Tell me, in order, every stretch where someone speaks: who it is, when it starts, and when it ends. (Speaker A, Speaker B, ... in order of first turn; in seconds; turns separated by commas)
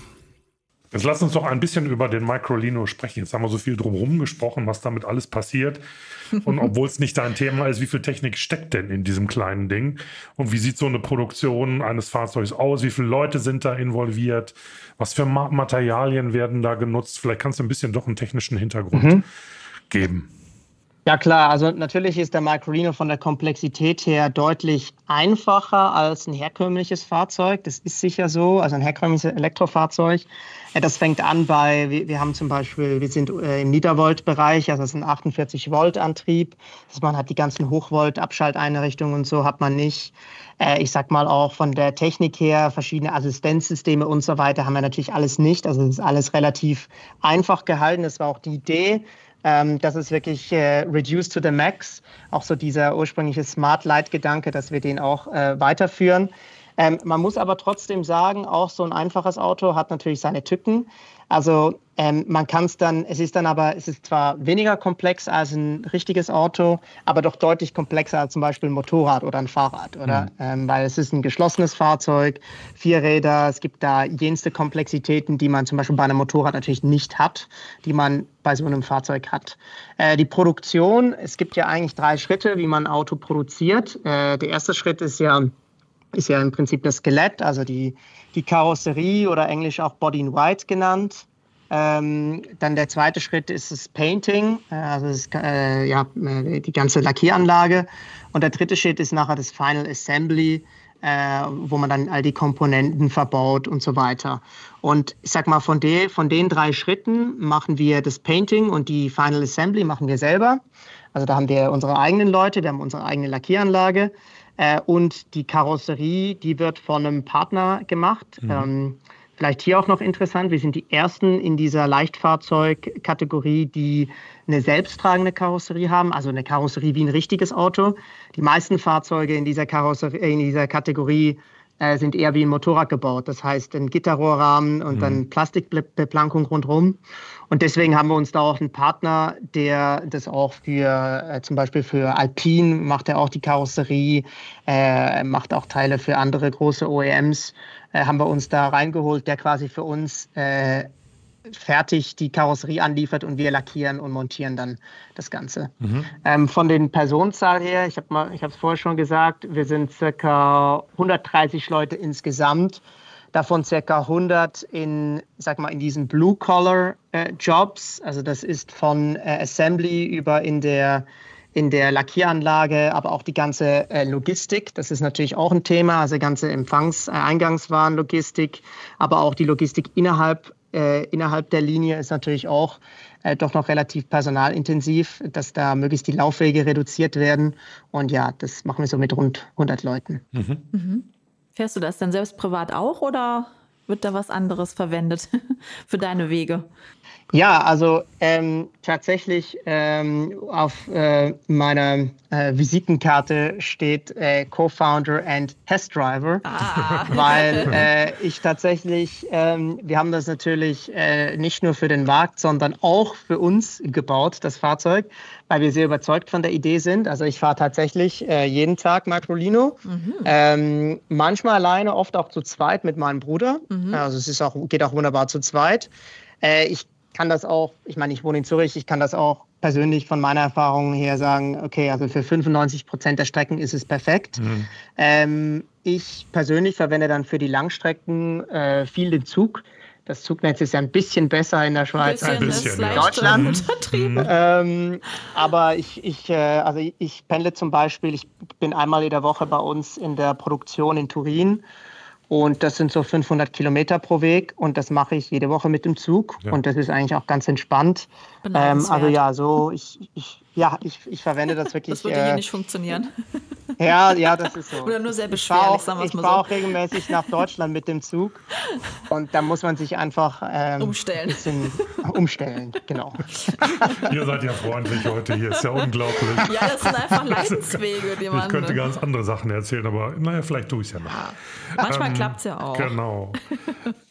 Speaker A: 0.9-5.8, Speaker A: 6.3-19.2, Speaker B: 18.9-19.2, Speaker A: 19.9-20.3, Speaker B: 21.1-85.5, Speaker B: 86.1-110.6, Speaker B: 111.1-137.0, Speaker A: 134.9-135.2, Speaker B: 137.5-150.9, Speaker B: 151.5-190.2, Speaker A: 190.3-190.6, Speaker C: 190.7-196.7, Speaker B: 197.3-206.5, Speaker C: 206.4-207.9, Speaker B: 207.1-225.9, Speaker C: 219.8-220.3, Speaker C: 223.7-224.0, Speaker B: 226.4-234.4, Speaker A: 234.4-234.7, Speaker B: 234.9-243.6, Speaker C: 242.0-244.3, Speaker A: 242.2-244.3, Speaker B: 244.2-251.6, Speaker B: 252.3-262.4, Speaker C: 258.4-259.2, Speaker C: 261.9-263.1, Speaker B: 263.8-268.4, Speaker C: 264.2-266.5, Speaker B: 269.1-273.3, Speaker C: 270.8-271.8, Speaker C: 273.5-274.1, Speaker A: 273.9-283.4, Speaker C: 274.8-278.8, Speaker C: 281.1-282.9, Speaker C: 283.5-283.8